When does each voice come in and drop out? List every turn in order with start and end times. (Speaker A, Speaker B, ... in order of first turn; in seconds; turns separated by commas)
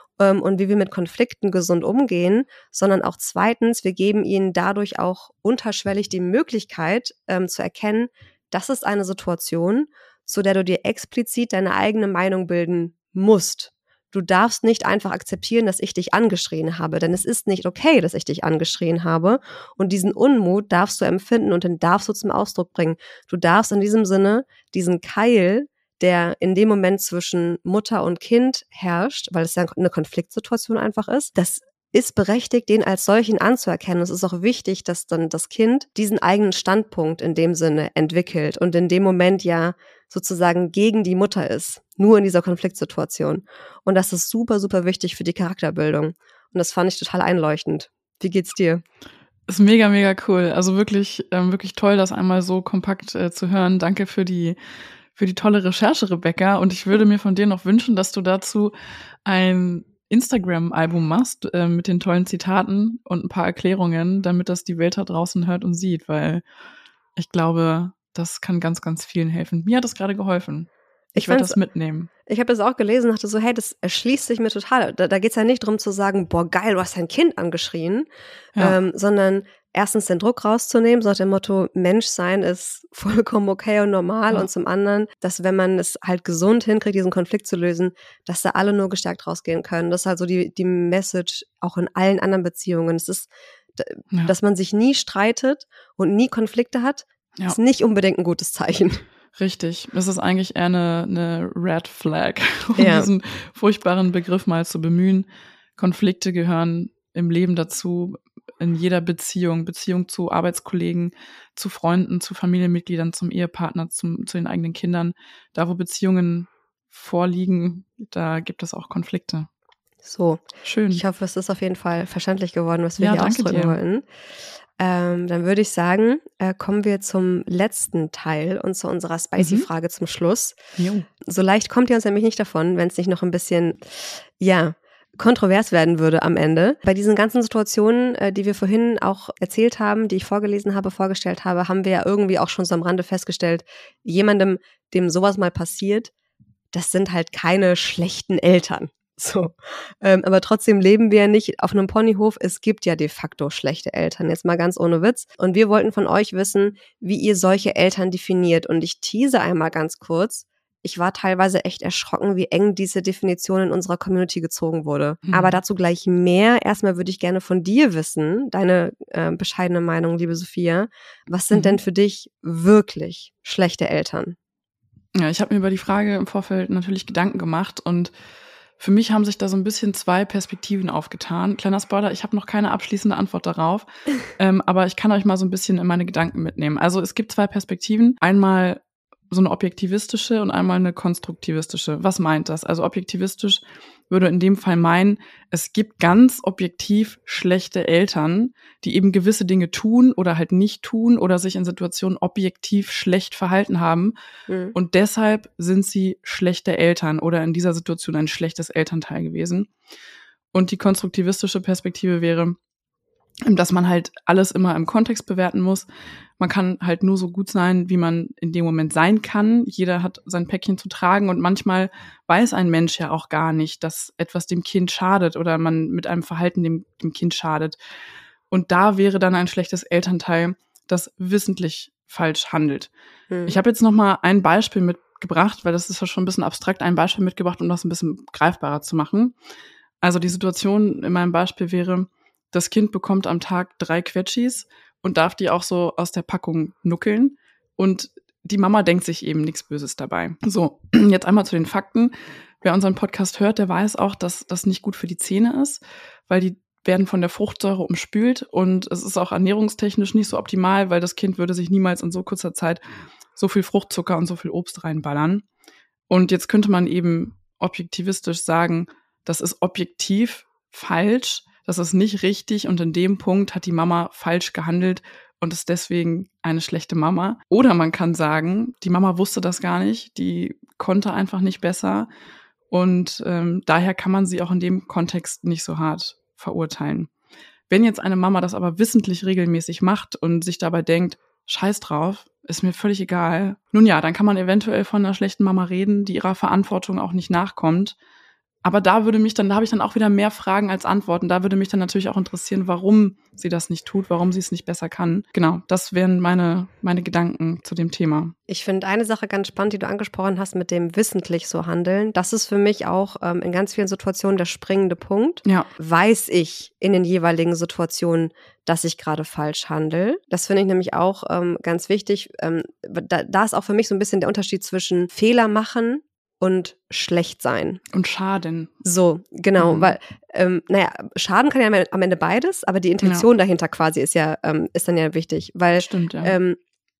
Speaker A: 0.2-48.8, Speaker B: 49.5-54.6, Speaker B: 55.1-58.7, Speaker B: 59.3-66.4, Speaker B: 67.2-72.1, Speaker A: 71.2-71.6, Speaker A: 72.3-78.1, Speaker A: 78.6-99.0, Speaker B: 99.4-105.3, Speaker A: 102.8-103.1, Speaker B: 105.8-119.5, Speaker A: 120.0-124.0, Speaker B: 120.6-121.0, Speaker B: 123.0-123.8, Speaker A: 124.8-130.6, Speaker B: 129.4-129.7, Speaker B: 130.8-131.1, Speaker A: 131.2-146.1, Speaker A: 146.7-174.4, Speaker B: 165.3-165.6, Speaker B: 171.5-171.8, Speaker B: 175.2-178.1, Speaker B: 178.8-204.1, Speaker A: 204.5-204.8, Speaker B: 204.7-209.7, Speaker B: 210.5-212.6, Speaker B: 213.4-215.9, Speaker B: 216.4-227.8, Speaker B: 228.5-232.9, Speaker A: 233.3-233.6, Speaker B: 233.5-239.4, Speaker B: 240.0-262.8, Speaker B: 263.4-265.4, Speaker B: 266.1-282.1, Speaker B: 282.7-287.1, Speaker B: 287.7-298.0, Speaker B: 298.6-308.3, Speaker A: 308.5-327.8, Speaker B: 327.9-328.7, Speaker A: 328.8-336.6, Speaker B: 329.6-329.9, Speaker B: 335.8-336.4